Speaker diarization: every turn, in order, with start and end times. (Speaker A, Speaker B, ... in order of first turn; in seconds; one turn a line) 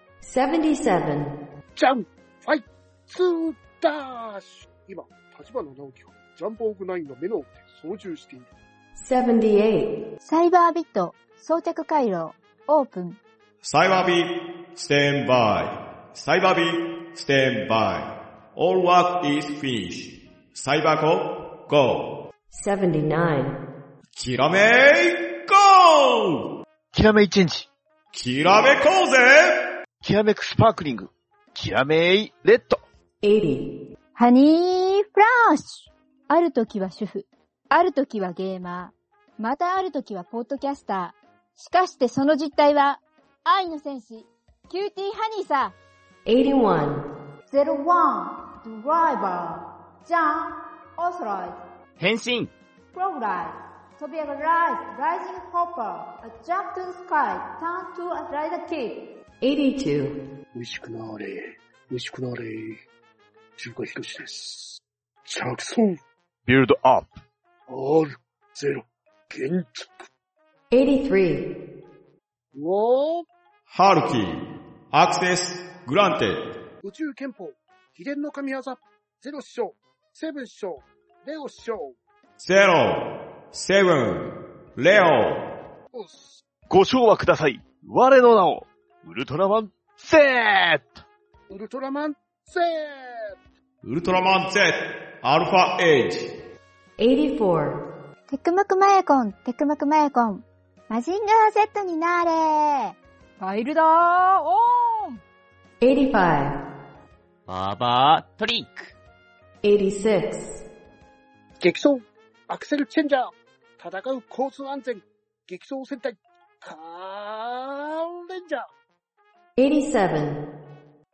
Speaker A: 0.2-1.4
Speaker B: 1.8-8.5
Speaker A: 9.0-9.9
Speaker C: 10.2-13.2
Speaker D: 13.6-22.1
Speaker A: 22.5-23.6
Speaker D: 24.2-26.4
Speaker E: 26.9-27.7
Speaker D: 28.1-29.7
Speaker E: 30.0-32.8
Speaker A: 33.2-33.7
Speaker C: 34.2-45.8
Speaker A: 46.3-47.1
Speaker C: 47.5-51.6
Speaker F: 52.0-52.5
Speaker C: 52.9-59.0
Speaker A: 59.4-60.2
Speaker B: 60.5-62.8
Speaker B: 63.6-66.0
Speaker E: 66.5-67.2
Speaker B: 67.7-70.1
Speaker A: 70.7-71.5
Speaker B: 72.5-73.3
Speaker D: 73.7-76.4
Speaker B: 76.8-82.0
Speaker D: 82.4-85.5
Speaker B: 85.9-86.4
Speaker E: 86.7-91.0
Speaker B: 91.5-93.3
Speaker D: 93.8-96.3
Speaker A: 97.0-97.8
Speaker C: 98.3-105.2
Speaker A: 105.8-106.6
Speaker F: 107.5-108.9
Speaker A: 109.6-110.6
Speaker B: 111.6-118.7
Speaker A: 119.6-120.5